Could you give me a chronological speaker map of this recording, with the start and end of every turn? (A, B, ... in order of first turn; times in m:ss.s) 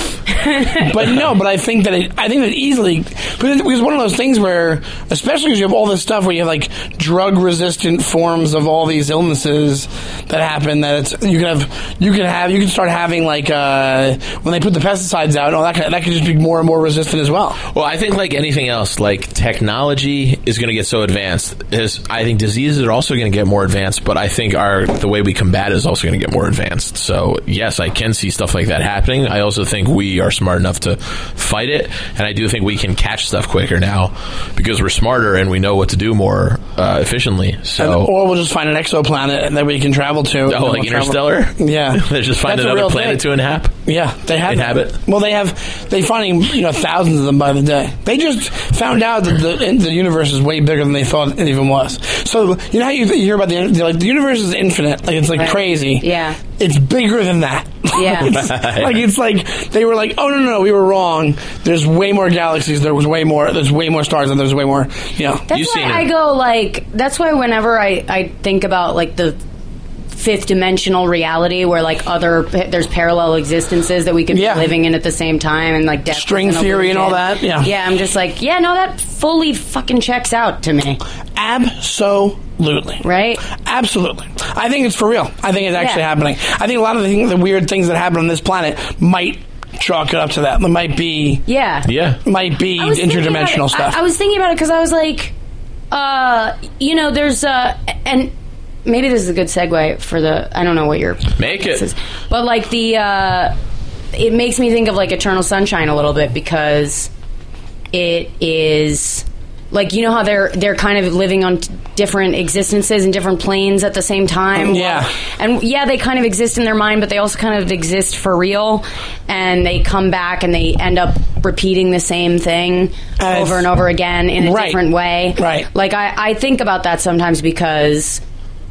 0:00.4-0:00.8 A
0:00.7-0:17.6 B
0:17.7-0:38.1 C
0:37.8-0:43.2 B
0:40.5-0:43.7 C
0:43.8-0:56.0 B
0:44.5-0:44.9 C
0:55.4-0:56.4 A
0:56.6-1:05.4 B
0:57.9-0:58.4 A
0:58.2-0:59.0 C
1:05.5-1:09.4 A
1:05.5-1:06.1 C
1:10.1-1:21.0 A
1:14.3-1:14.7 B
1:16.1-1:17.7 B
1:21.4-1:31.4 B
1:23.0-1:23.4 A
1:25.7-1:26.0 A
1:31.5-1:31.9 A
1:31.8-1:32.2 C
1:32.2-1:34.0 B
1:32.8-1:35.3 A
1:35.9-1:38.3 A
1:38.8-1:43.5 A
1:41.4-1:41.8 C
1:44.1-1:47.1 A
1:47.9-2:08.2 A
1:54.6-1:55.1 B
2:03.2-2:03.7 B
2:04.4-2:04.8 B
2:05.4-2:05.7 B